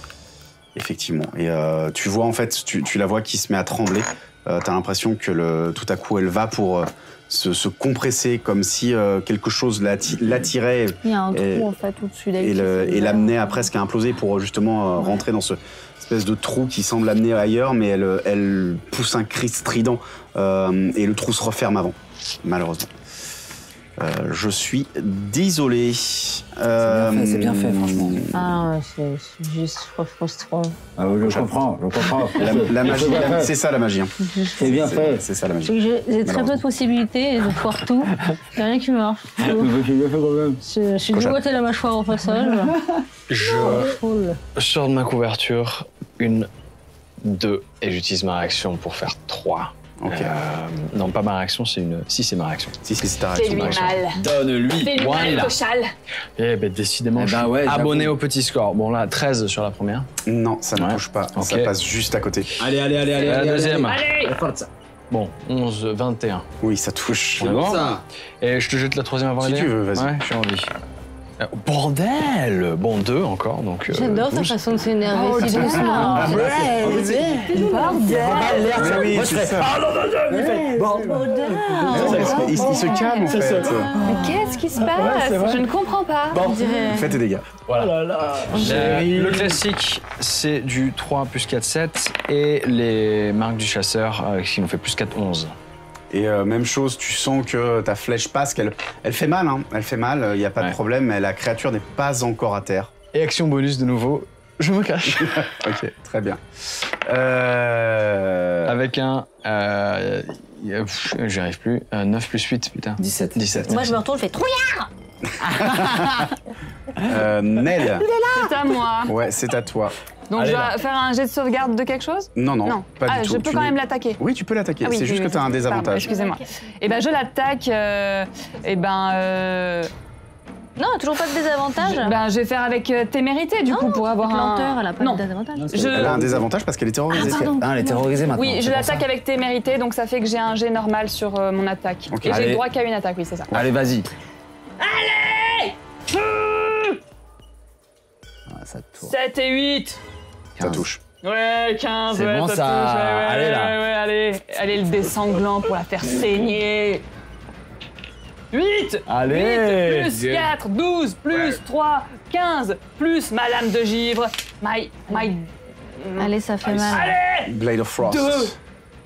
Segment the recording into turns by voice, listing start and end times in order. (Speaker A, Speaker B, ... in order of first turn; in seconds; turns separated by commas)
Speaker A: 0.8-11.7, Speaker B: 11.0-13.6, Speaker A: 12.4-22.9, Speaker A: 24.0-28.6, Speaker C: 26.8-28.2, Speaker B: 28.3-30.8, Speaker C: 31.0-33.5, Speaker A: 31.2-31.5, Speaker A: 32.4-35.7, Speaker B: 34.2-34.7, Speaker C: 34.6-35.2, Speaker B: 35.6-39.7, Speaker A: 36.2-36.6, Speaker C: 39.4-40.6, Speaker B: 40.6-42.8, Speaker A: 41.1-41.4, Speaker D: 43.3-43.9, Speaker B: 43.6-44.4, Speaker D: 44.5-46.5, Speaker D: 47.2-52.8, Speaker A: 50.0-50.4, Speaker A: 52.8-54.0, Speaker E: 53.3-54.2, Speaker D: 53.5-53.8, Speaker C: 54.1-55.6, Speaker E: 54.8-55.9, Speaker D: 56.4-60.1, Speaker C: 57.2-58.1, Speaker A: 60.3-62.6, Speaker D: 60.8-61.7, Speaker C: 62.6-64.7, Speaker E: 63.2-64.3, Speaker D: 63.2-64.0, Speaker D: 65.1-66.5, Speaker A: 66.6-67.5, Speaker C: 67.4-68.0, Speaker D: 67.4-70.7, Speaker A: 69.4-70.2, Speaker D: 71.4-74.6, Speaker B: 73.9-78.8, Speaker C: 75.2-84.0, Speaker D: 75.2-76.4, Speaker A: 76.2-76.7, Speaker E: 77.5-78.9, Speaker A: 78.7-79.8, Speaker B: 80.3-83.0, Speaker A: 81.9-84.0, Speaker E: 82.5-86.5, Speaker B: 83.9-84.6, Speaker C: 84.8-85.7, Speaker D: 85.0-85.6, Speaker B: 86.3-87.2, Speaker A: 86.9-87.5, Speaker D: 87.7-95.5, Speaker C: 87.7-89.6, Speaker B: 88.5-89.0, Speaker A: 96.1-102.9, Speaker D: 103.1-105.5, Speaker A: 105.1-106.4, Speaker A: 107.1-108.8, Speaker D: 108.7-114.0, Speaker C: 113.0-114.0, Speaker B: 113.7-114.9, Speaker C: 115.4-116.3, Speaker A: 115.5-116.3, Speaker A: 117.0-118.1, Speaker E: 118.3-119.2, Speaker A: 119.1-120.0, Speaker E: 120.3-124.2, Speaker C: 120.3-120.7, Speaker A: 122.4-126.1, Speaker E: 124.8-129.9, Speaker B: 125.8-126.5, Speaker B: 130.8-132.2, Speaker E: 131.8-136.2, Speaker B: 133.7-136.0, Speaker C: 135.6-136.5, Speaker A: 135.9-137.5, Speaker B: 137.1-138.2, Speaker C: 137.1-139.1, Speaker E: 138.4-143.5, Speaker A: 142.1-142.4, Speaker C: 142.3-142.6, Speaker C: 143.5-144.1, Speaker E: 144.8-147.0, Speaker C: 148.5-149.1, Speaker E: 149.0-150.0, Speaker C: 150.6-150.9, Speaker A: 150.6-151.0, Speaker E: 151.2-157.1, Speaker C: 152.1-153.8, Speaker E: 158.5-168.6, Speaker C: 159.1-160.5, Speaker B: 166.2-167.1, Speaker A: 167.5-168.6